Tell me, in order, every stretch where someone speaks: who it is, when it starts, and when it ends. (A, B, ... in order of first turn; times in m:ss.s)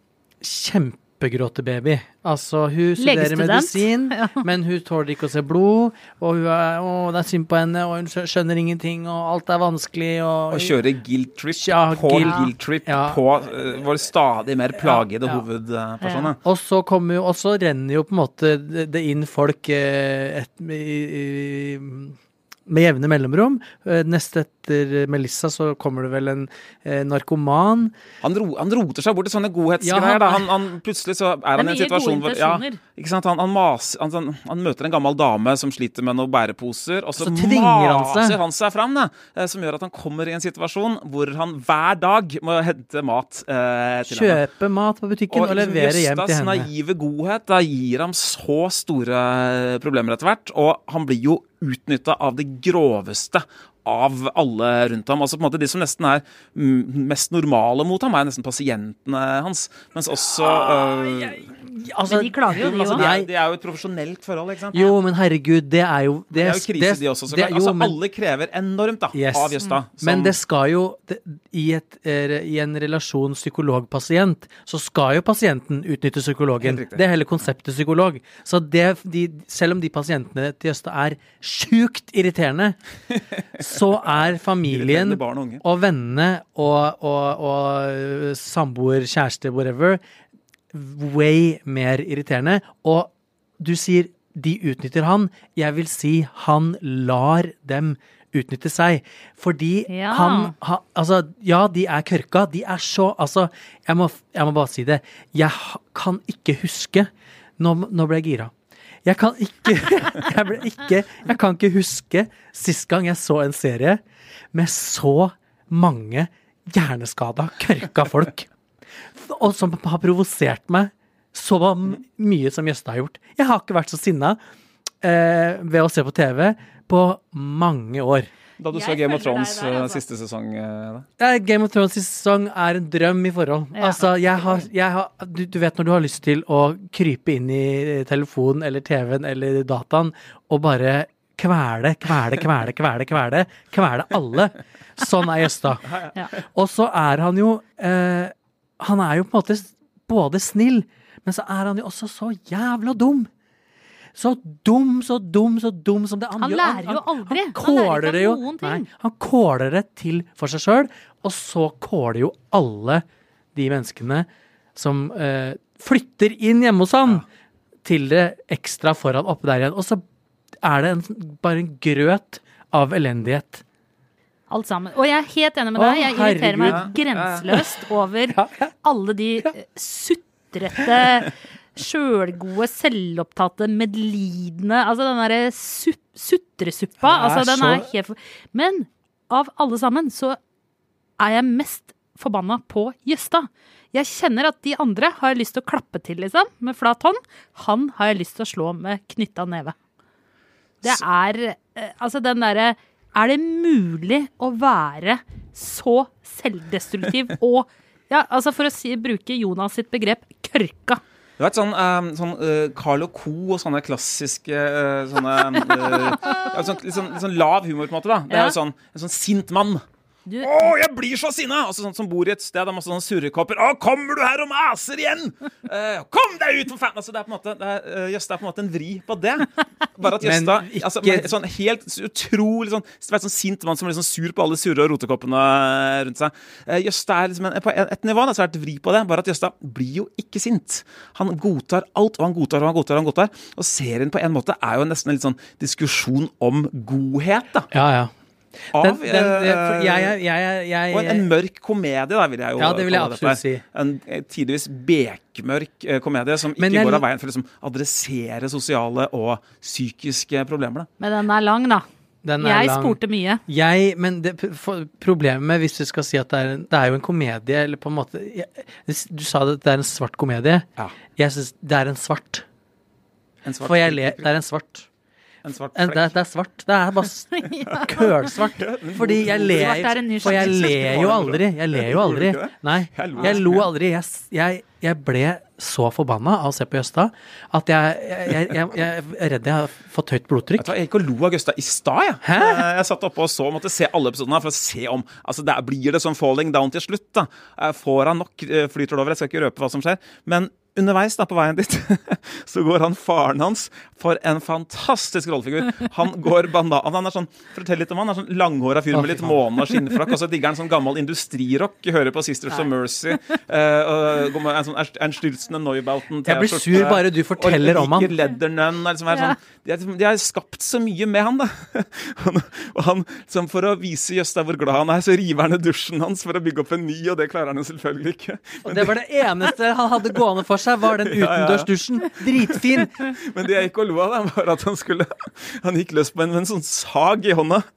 0:00.4-0:10.8 A
0:03.0-0:04.4 B
0:10.5-0:16.4 C
0:11.5-0:13.2 A
0:12.2-0:12.4 B
0:14.8-0:15.4 A
0:16.0-0:16.3 B
0:16.4-0:22.2 A
0:22.7-0:27.9 A
0:28.2-0:44.4 C
0:29.8-0:30.5 A
0:31.6-0:32.8 B
0:37.2-0:38.4 A
0:44.0-0:46.7 A
0:45.3-1:01.5 C
1:00.3-1:03.3 A
1:02.0-1:03.0 B
1:02.6-1:04.9 C
1:04.7-1:08.0 A
1:06.3-1:10.3 C
1:09.1-1:22.8 A
1:16.6-1:17.0 C
1:23.6-1:30.0 A
1:24.7-1:25.6 C
1:30.7-1:48.5 A
1:39.9-1:40.5 B
1:49.0-1:54.0 A
1:54.5-1:58.5 A
1:59.1-2:04.4 A
2:05.0-2:08.3 A
2:08.6-2:11.1 C
2:08.7-2:10.0 B
2:11.2-2:25.9 A
2:13.8-2:14.0 B
2:26.4-2:33.3 A
2:34.2-2:47.2 A
2:36.4-2:38.8 B
2:47.8-2:50.0 A
2:50.6-2:53.6 A
2:54.5-3:10.4 B
2:55.8-2:56.9 A
2:56.6-2:57.4 C
2:58.3-2:58.7 A
3:07.0-3:07.9 A
3:11.2-3:19.7 B
3:20.8-3:31.0 B
3:31.4-3:39.8 C
3:38.3-3:38.5 B
3:40.3-3:40.7 B
3:40.4-4:07.7 C
3:50.2-3:51.3 A
4:07.7-4:08.1 A
4:08.7-4:11.3 A
4:08.7-4:10.1 C
4:10.9-4:20.9 C
4:12.6-4:13.6 A
4:16.6-4:17.0 A
4:21.0-4:21.8 B
4:22.2-4:32.4 A
4:22.4-4:23.4 B
4:33.4-4:34.3 C
4:33.6-4:34.9 A
4:35.4-4:36.1 C
4:35.7-4:50.7 A
4:37.4-4:37.8 B
4:38.5-4:43.7 C
4:39.5-4:40.7 B
4:50.6-5:29.0 C
4:52.2-4:52.7 A
5:08.9-5:09.8 A
5:16.2-5:18.1 A
5:28.6-5:33.0 A
5:31.0-5:31.7 C
5:32.5-5:37.6 C